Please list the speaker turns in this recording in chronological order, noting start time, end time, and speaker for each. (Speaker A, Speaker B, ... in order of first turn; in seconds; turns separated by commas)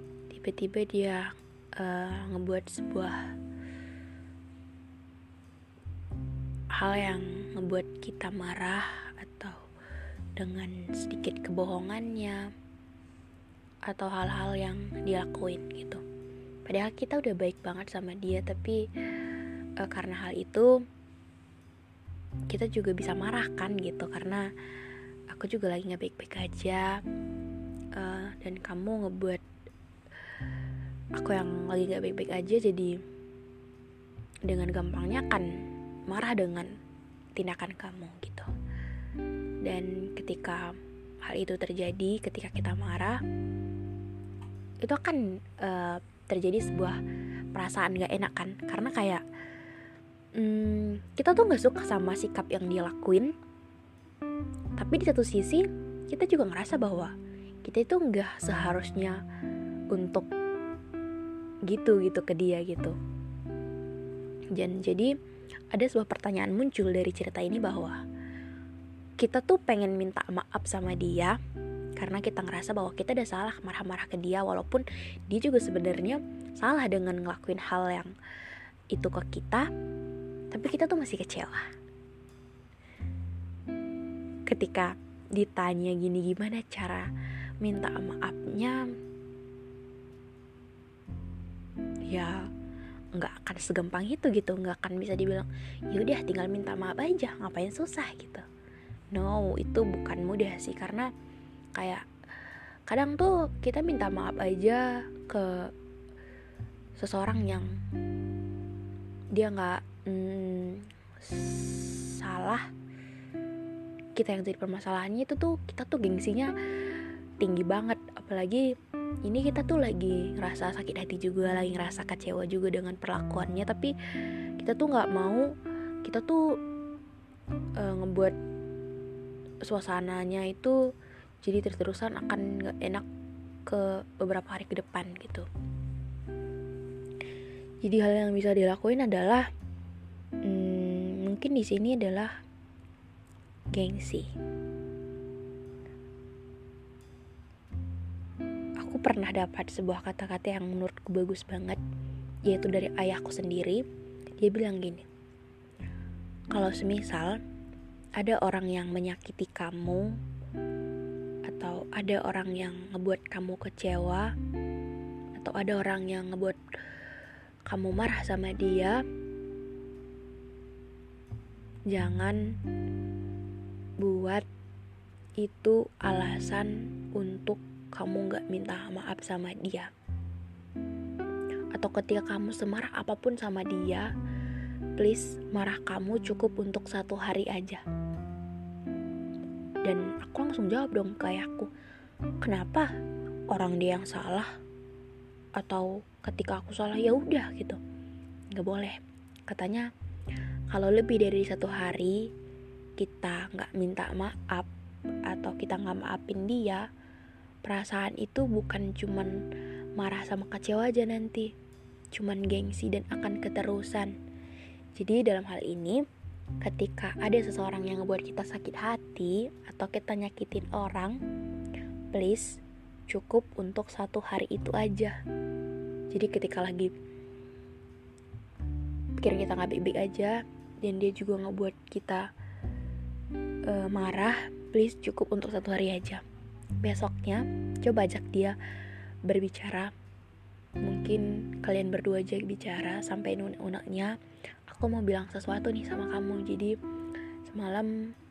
Speaker A: 0.3-3.3, Speaker A: 6.7-9.6, Speaker A: 10.4-12.4, Speaker A: 13.9-16.0, Speaker A: 16.7-18.8, Speaker A: 19.8-20.7, Speaker A: 22.5-24.4, Speaker A: 25.3-27.0, Speaker A: 28.0-29.4, Speaker A: 31.1-32.9, Speaker A: 34.5-35.5, Speaker A: 36.1-36.7, Speaker A: 37.4-38.5, Speaker A: 39.6-43.2, Speaker A: 44.8-47.0, Speaker A: 47.5-49.2, Speaker A: 50.4-53.3, Speaker A: 54.8-57.1, Speaker A: 57.6-59.2, Speaker A: 59.9-60.3, Speaker A: 61.7-63.0, Speaker A: 64.5-65.1, Speaker A: 65.7-68.0, Speaker A: 69.2-71.4, Speaker A: 72.0-78.1, Speaker A: 78.9-79.7, Speaker A: 80.5-81.7, Speaker A: 84.5-87.1, Speaker A: 87.6-88.8, Speaker A: 92.1-92.5, Speaker A: 93.1-98.5, Speaker A: 99.1-101.1, Speaker A: 101.8-102.0, Speaker A: 102.9-105.7, Speaker A: 107.0-107.8, Speaker A: 109.3-112.7, Speaker A: 114.2-116.5, Speaker A: 117.4-118.7, Speaker A: 119.2-123.9, Speaker A: 124.6-125.5, Speaker A: 126.1-126.6, Speaker A: 127.8-128.3, Speaker A: 129.7-130.8, Speaker A: 131.4-133.1, Speaker A: 133.7-135.5, Speaker A: 137.8-139.5, Speaker A: 140.4-142.3, Speaker A: 143.8-144.3, Speaker A: 148.8-151.8, Speaker A: 152.5-153.8, Speaker A: 154.4-155.1, Speaker A: 156.5-157.4, Speaker A: 158.2-160.1, Speaker A: 161.5-164.3, Speaker A: 165.4-166.6, Speaker A: 167.7-169.0, Speaker A: 171.9-172.4, Speaker A: 174.0-174.4, Speaker A: 175.4-179.9, Speaker A: 181.8-184.1, Speaker A: 185.0-187.8, Speaker A: 189.8-191.7, Speaker A: 192.4-192.9, Speaker A: 193.5-194.5, Speaker A: 195.6-197.8, Speaker A: 198.5-199.9, Speaker A: 200.7-202.2, Speaker A: 203.0-204.7, Speaker A: 205.3-206.8, Speaker A: 207.7-209.3, Speaker A: 210.0-211.5, Speaker A: 212.1-214.1, Speaker A: 215.0-216.0, Speaker A: 216.6-221.2, Speaker A: 222.1-225.2, Speaker A: 226.1-226.9, Speaker A: 229.2-232.2, Speaker A: 233.7-236.2, Speaker A: 236.8-238.6, Speaker A: 239.3-239.9, Speaker A: 240.8-244.1, Speaker A: 244.7-246.7, Speaker A: 247.5-247.9